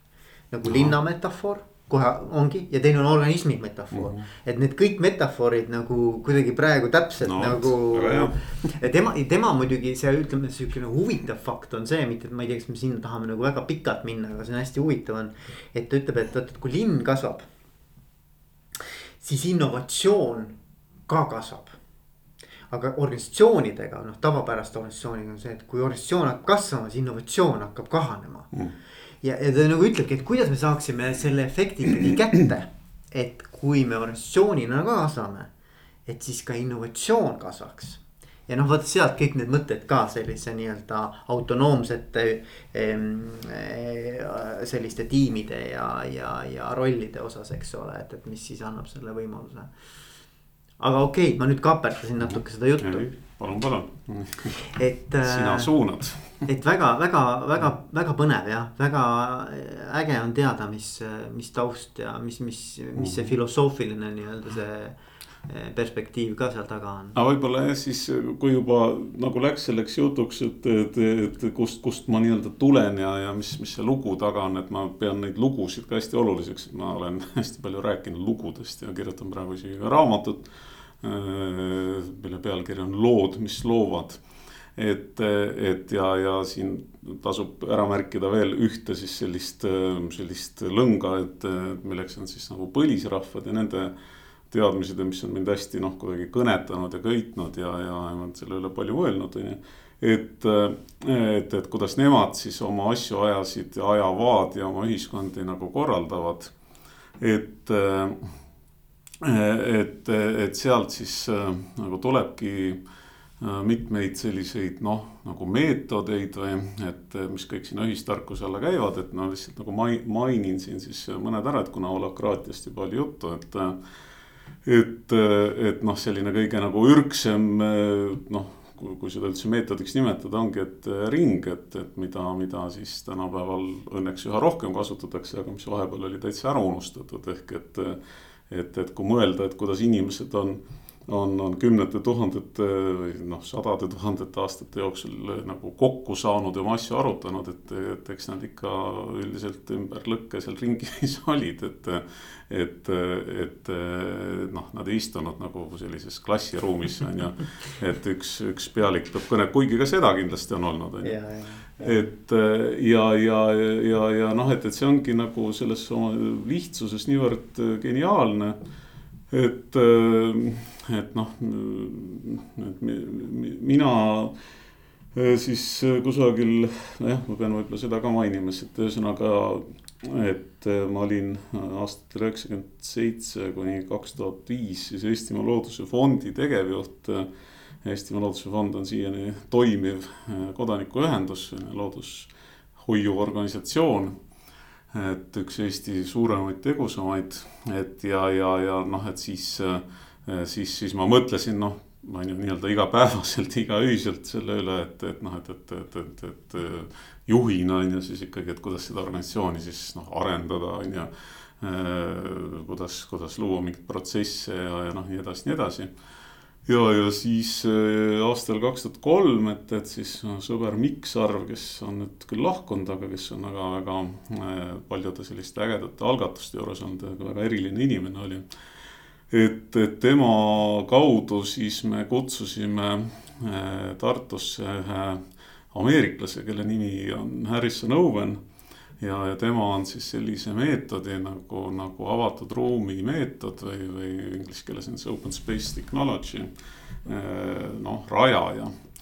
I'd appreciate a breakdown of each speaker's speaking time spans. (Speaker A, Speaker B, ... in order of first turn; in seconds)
Speaker A: 0.5-17.5, 19.2-20.6, 21.1-21.8, 22.7-28.5, 29.2-35.5, 36.1-49.7, 50.8-53.2, 54.5-55.7, 56.5-67.2, 161.0-162.1
Speaker B: 0.7-0.9, 3.9-4.3, 7.2-8.4, 52.2-54.6, 55.2-56.5, 63.0-63.3, 67.2-80.5, 81.0-84.2, 84.8-93.9, 94.5-106.5, 107.2-108.2, 109.2-112.8, 113.4-123.8, 124.7-161.2, 161.8-168.6, 169.3-174.4, 175.1-187.3, 187.8-194.2, 194.9-215.9, 216.7-228.4, 229.3-238.4, 239.0-246.5, 247.0-248.7